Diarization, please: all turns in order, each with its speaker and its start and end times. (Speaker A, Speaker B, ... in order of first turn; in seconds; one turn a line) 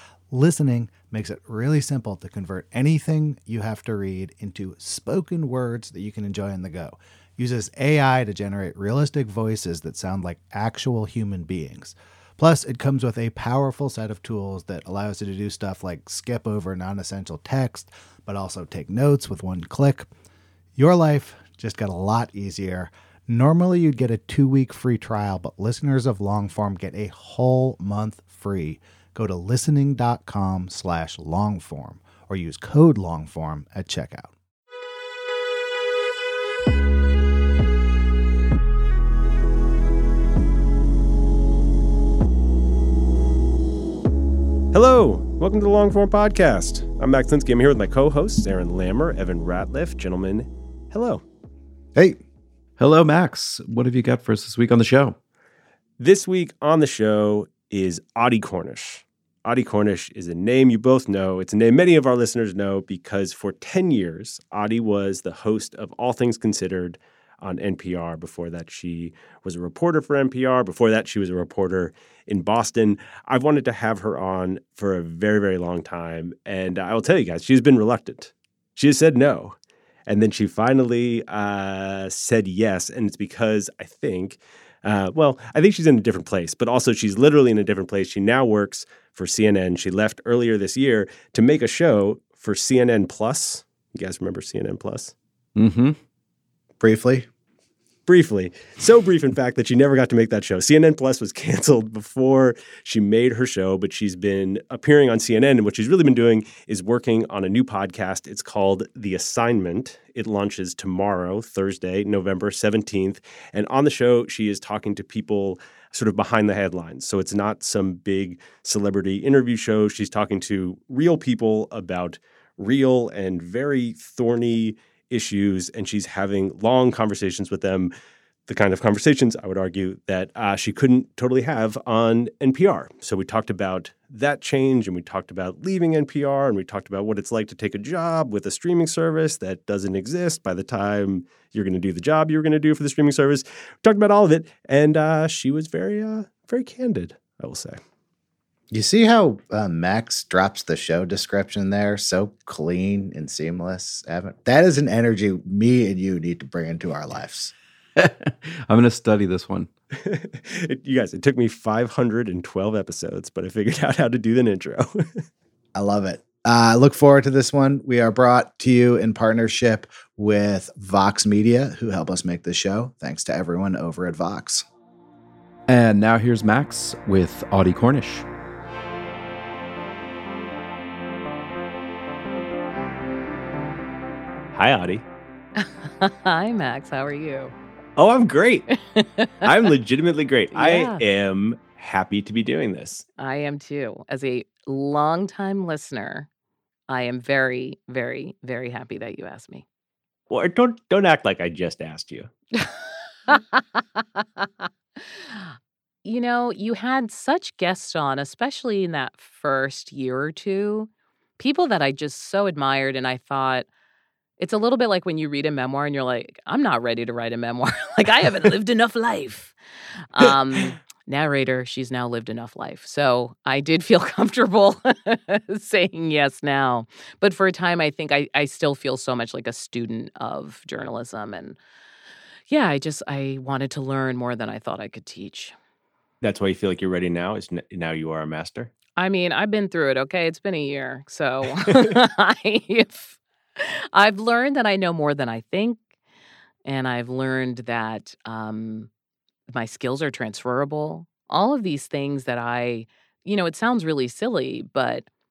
Speaker A: 0.3-20.1
Speaker A: 20.8-34.3
Speaker B: 44.7-51.2
Speaker A: 51.9-52.2
Speaker C: 52.8-55.2
Speaker B: 56.0-95.1
Speaker C: 95.5-96.0
Speaker A: 96.8-97.3
Speaker B: 98.1-127.9
Speaker B: 128.5-147.8
Speaker A: 148.7-157.5
Speaker C: 157.9-159.7
Speaker B: 159.9-165.2
Speaker A: 165.7-174.6
Speaker C: 175.7-178.2
Speaker B: 184.5-185.0
Speaker D: 185.6-187.5
Speaker B: 188.0-188.7
Speaker D: 188.9-189.4
Speaker B: 189.4-193.0
Speaker D: 190.5-191.0
Speaker D: 193.2-196.3
Speaker D: 196.9-199.6
Speaker B: 200.3-202.3
Speaker D: 202.6-213.7
Speaker D: 214.4-219.5
Speaker D: 220.1-231.6
Speaker D: 232.5-235.5
Speaker B: 236.2-238.7
Speaker D: 239.0-245.8
Speaker D: 246.6-248.9
Speaker D: 249.5-255.1